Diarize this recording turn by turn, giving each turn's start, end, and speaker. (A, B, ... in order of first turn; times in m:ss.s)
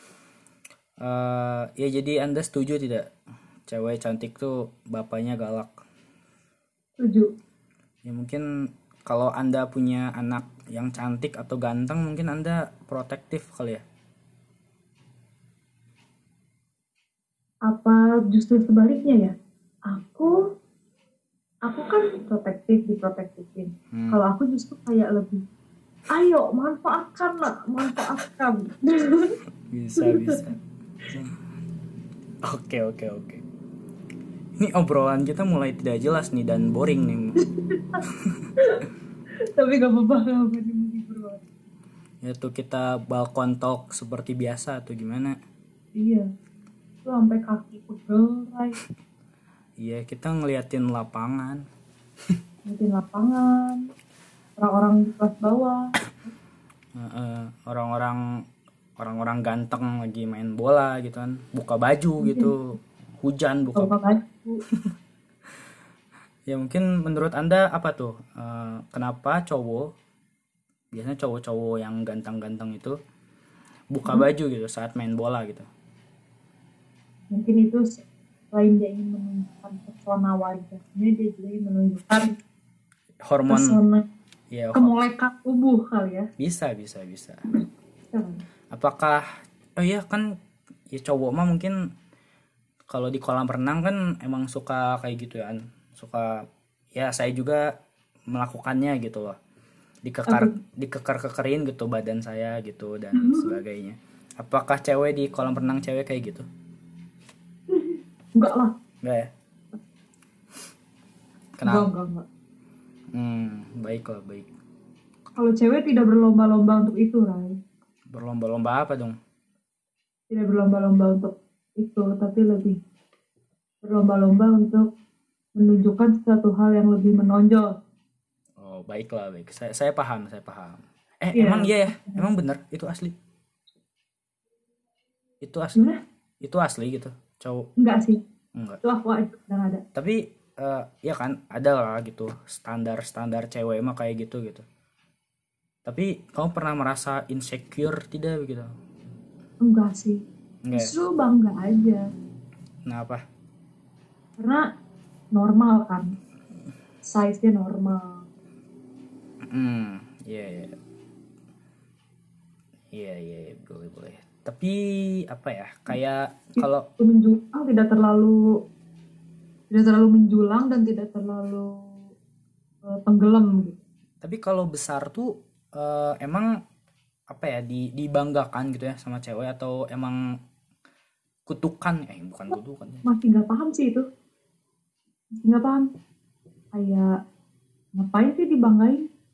0:01.0-0:03.1 A
0:03.7-0:05.8 A
0:07.0-0:07.3 B
0:08.0-0:08.5 A
0:09.0-0:13.8 A
0:17.7-0:19.4 B
0:19.9-0:20.4 B
0:21.6-0:25.4 B
0:23.9-0:24.2 A
0:26.1-0:29.4 B
0:29.7-0:31.4 A
0:30.0-0:30.4 B
0:32.4-0:33.4 A
0:34.6-0:37.4 A
0:37.4-0:38.0 B
0:38.1-0:38.5 A
0:38.6-0:38.8 B
0:39.6-0:41.4 B
0:42.2-0:45.4 A
0:46.0-0:46.3 B
0:47.0-0:48.8 B
0:49.8-0:51.6 A
0:52.7-0:53.8 B
0:54.6-0:55.9 B
0:57.0-0:58.2 A
0:59.0-1:03.9 A
1:02.2-1:02.5 B
1:03.7-1:04.6 B
1:06.5-1:09.9 A
1:10.9-1:13.0 A
1:13.9-1:15.7 A
1:17.3-1:22.4 B
1:23.2-1:23.8 A
1:23.5-1:24.0 B
1:24.5-1:25.0 A
1:24.7-1:26.3 B
1:26.4-1:27.4 A
1:28.1-1:28.4 B
1:28.7-1:29.2 A
1:29.8-1:30.4 A
1:30.9-1:31.8 A
1:32.9-1:37.7 A
1:38.3-1:39.4 A
1:40.0-1:46.5 A
1:40.3-1:40.6 B
1:43.2-1:43.6 B
1:47.7-1:48.7 B
1:49.0-1:49.3 A
1:51.6-1:51.9 A
1:51.6-1:52.2 B
1:53.1-1:54.5 A
1:55.4-1:57.6 B
1:58.1-1:59.2 A
2:00.3-2:02.8 B
2:03.8-2:04.9 B
2:05.6-2:07.7 B
2:08.6-2:13.2 A
2:11.3-2:12.2 B
2:15.4-2:15.9 A
2:15.8-2:16.0 B
2:16.4-2:17.7 A
2:17.8-2:18.2 B
2:18.6-2:18.8 A
2:18.8-2:19.8 B
2:20.0-2:24.6 A
2:25.8-2:28.7 A
2:29.6-2:32.0 B
2:30.6-2:31.0 A
2:32.9-2:33.2 A
2:34.4-2:34.7 B
2:35.4-2:36.1 B
2:37.0-2:38.3 B
2:39.5-2:40.8 A
2:42.9-2:46.9 A
2:46.6-2:48.5 B
2:49.7-2:52.1 B
2:52.8-2:53.8 B
2:54.2-2:56.6 A
2:57.3-3:00.2 A
3:01.5-3:03.0 A
3:03.0-3:04.1 B
3:05.4-3:05.9 B
3:06.7-3:07.1 B
3:08.0-3:09.1 B